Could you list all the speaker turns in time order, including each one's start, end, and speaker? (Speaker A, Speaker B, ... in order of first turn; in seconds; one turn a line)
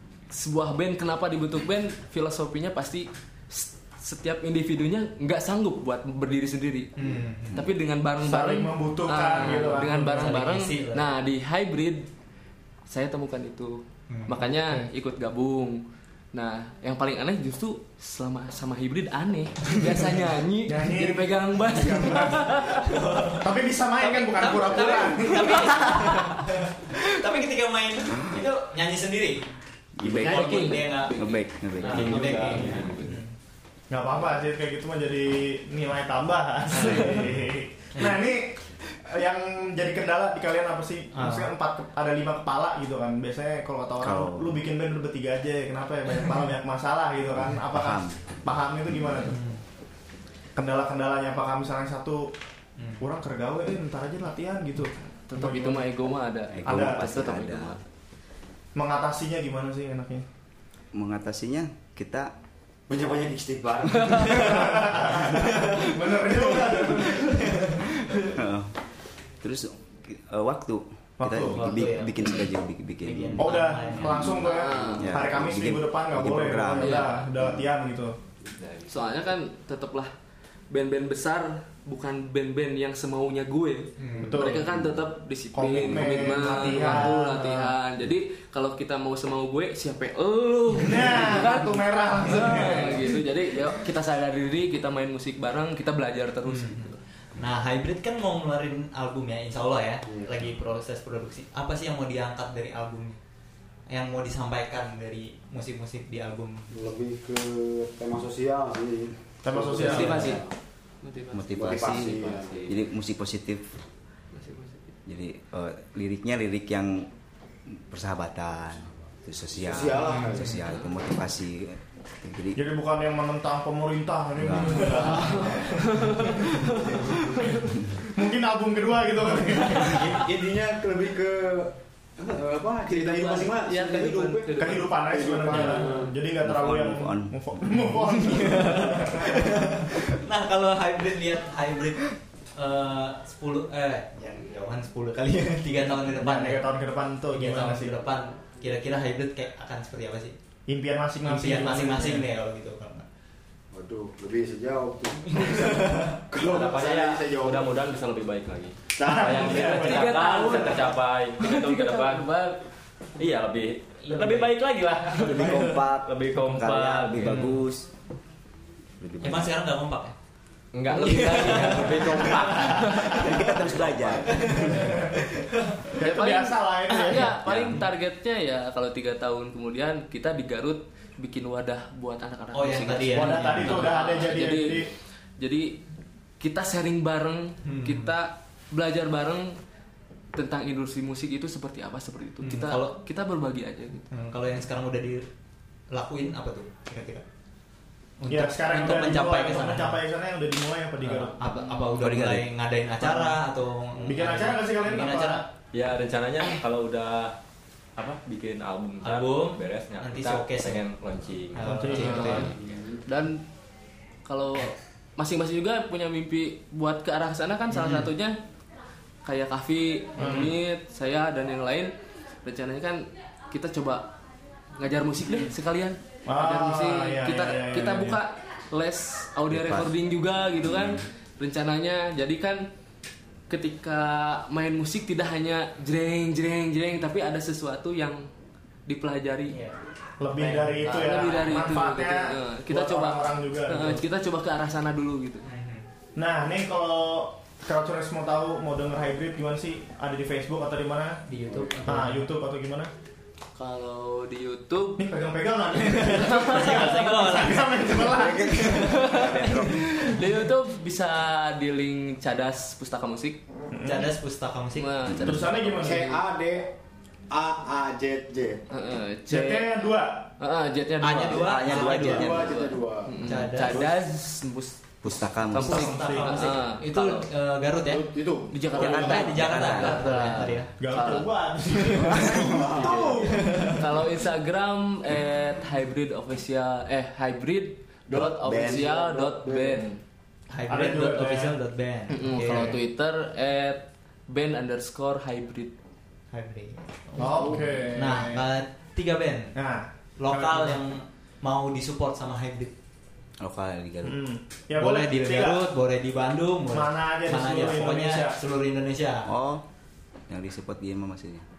Speaker A: 0.3-6.9
Speaker B: 7.0-7.7
Speaker A: 7.5-12.1
Speaker C: 8.2-10.4
Speaker B: 9.6-11.1
Speaker A: 12.9-23.0
Speaker B: 14.1-14.4
Speaker C: 20.7-22.7
Speaker B: 22.8-29.4
Speaker C: 23.4-26.4
Speaker A: 25.3-26.2
Speaker D: 30.0-32.6
Speaker E: 30.0-30.6
Speaker B: 30.1-33.3
Speaker A: 30.2-31.4
Speaker F: 31.9-33.1
Speaker A: 32.0-32.5
Speaker C: 33.9-49.4
Speaker B: 38.0-38.2
Speaker B: 41.1-41.5
Speaker D: 44.0-44.6
Speaker D: 47.5-48.2
Speaker B: 49.3-49.6
Speaker C: 50.6-52.3
Speaker B: 52.8-53.0
Speaker C: 53.0-55.9
Speaker A: 55.3-57.8
Speaker D: 56.5-57.8
Speaker C: 56.6-57.2
Speaker C: 58.8-60.2
Speaker D: 60.9-62.3
Speaker E: 62.9-65.0
Speaker C: 64.3-68.4
Speaker D: 68.3-68.7
Speaker D: 69.4-74.4
Speaker C: 71.2-71.7
Speaker B: 71.4-72.4
Speaker B: 73.0-74.4
Speaker C: 73.4-78.2
Speaker A: 74.4-75.1
Speaker D: 75.0-77.5
Speaker A: 76.8-77.2
Speaker F: 78.6-78.9
Speaker A: 78.9-80.1
Speaker A: 80.7-97.0
Speaker B: 84.0-84.4
Speaker C: 84.2-84.7
Speaker C: 85.5-87.7
Speaker C: 90.8-93.2
Speaker B: 96.5-103.2
Speaker E: 100.1-100.3
Speaker B: 103.9-106.7
Speaker E: 106.7-110.5
Speaker C: 109.4-110.4
Speaker A: 109.8-110.4
Speaker A: 111.0-112.3
Speaker D: 111.3-113.7
Speaker E: 111.5-112.7
Speaker F: 112.2-112.8
Speaker A: 114.3-114.8
Speaker D: 115.1-117.1
Speaker D: 117.7-122.6
Speaker E: 119.6-120.7
Speaker C: 122.6-126.7
Speaker D: 124.4-125.1
Speaker A: 124.9-127.7
Speaker E: 125.1-125.5
Speaker E: 127.0-127.2
Speaker C: 128.1-130.3
Speaker E: 129.9-136.1
Speaker A: 132.9-135.9
Speaker C: 134.6-140.2
Speaker D: 136.4-137.9
Speaker B: 138.4-146.7
Speaker C: 146.0-148.0
Speaker B: 147.3-150.3
Speaker C: 150.7-152.3
Speaker B: 151.2-153.1
Speaker E: 153.7-157.8
Speaker F: 156.4-162.2
Speaker E: 159.0-160.0
Speaker C: 159.1-160.1
Speaker A: 159.6-162.6
Speaker F: 163.2-167.5
Speaker B: 164.1-164.5
Speaker D: 165.2-167.9
Speaker D: 169.0-169.5
Speaker B: 169.2-170.1
Speaker F: 170.7-174.6
Speaker B: 170.9-173.4
Speaker D: 173.1-175.1
Speaker B: 174.3-175.0
Speaker C: 174.8-175.2
Speaker C: 175.9-177.4
Speaker A: 176.0-185.8
Speaker D: 177.4-177.8
Speaker B: 182.5-184.2
Speaker C: 183.1-184.9
Speaker A: 186.4-189.6
Speaker B: 187.7-188.1
Speaker A: 190.3-194.1
Speaker B: 192.4-192.9
Speaker B: 194.1-195.3
Speaker B: 195.9-197.2
Speaker B: 198.2-200.0
Speaker C: 198.3-201.4
Speaker B: 201.1-205.4
Speaker D: 201.9-202.5
Speaker C: 203.0-203.4
Speaker C: 204.0-205.4
Speaker F: 205.7-207.3
Speaker F: 208.0-212.6
Speaker B: 209.0-210.8
Speaker B: 211.5-212.6
Speaker C: 211.6-212.5
Speaker A: 211.9-212.5
Speaker E: 212.4-213.0
Speaker A: 213.1-213.4
Speaker A: 214.2-218.4
Speaker C: 217.7-218.1
Speaker A: 219.2-221.9
Speaker C: 220.2-220.5
Speaker A: 222.4-224.1
Speaker A: 224.8-232.7
Speaker C: 226.3-228.2
Speaker D: 229.5-230.0
Speaker D: 230.6-231.0
Speaker A: 233.5-238.3
Speaker A: 238.9-239.6
Speaker B: 239.5-239.8
Speaker C: 240.2-244.0
Speaker B: 240.3-241.1
Speaker A: 240.8-245.5
Speaker B: 245.4-245.9
Speaker C: 246.2-251.2
Speaker B: 251.3-252.3
Speaker C: 251.8-252.9
Speaker A: 253.6-255.0
Speaker C: 255.0-259.2
Speaker B: 256.0-258.4
Speaker A: 256.2-257.1
Speaker D: 258.2-260.0
Speaker A: 258.7-263.4
Speaker C: 263.7-264.1
Speaker B: 263.8-265.1
Speaker A: 264.8-266.2
Speaker C: 265.2-266.0
Speaker E: 265.8-266.7
Speaker E: 267.3-268.6
Speaker A: 268.7-269.8
Speaker C: 269.3-270.3
Speaker A: 270.4-274.8
Speaker B: 271.0-272.4
Speaker D: 271.3-272.5
Speaker E: 271.8-273.9
Speaker B: 273.2-273.8
Speaker D: 275.0-276.0
Speaker A: 275.4-277.2
Speaker B: 275.6-278.1
Speaker C: 275.7-276.6
Speaker E: 277.9-279.3
Speaker A: 278.5-290.0
Speaker D: 278.8-280.1
Speaker B: 278.8-280.7
Speaker C: 280.8-283.9
Speaker E: 281.9-283.3
Speaker E: 288.1-289.9
Speaker B: 290.5-292.8
Speaker C: 290.7-291.6
Speaker A: 292.1-295.7
Speaker B: 296.3-299.5
Speaker C: 297.2-298.5
Speaker C: 299.6-300.8
Speaker B: 300.2-302.7
Speaker D: 303.4-304.2
Speaker C: 304.0-305.7
Speaker B: 304.8-309.3
Speaker C: 306.7-308.4
Speaker D: 309.3-309.6
Speaker D: 310.3-311.4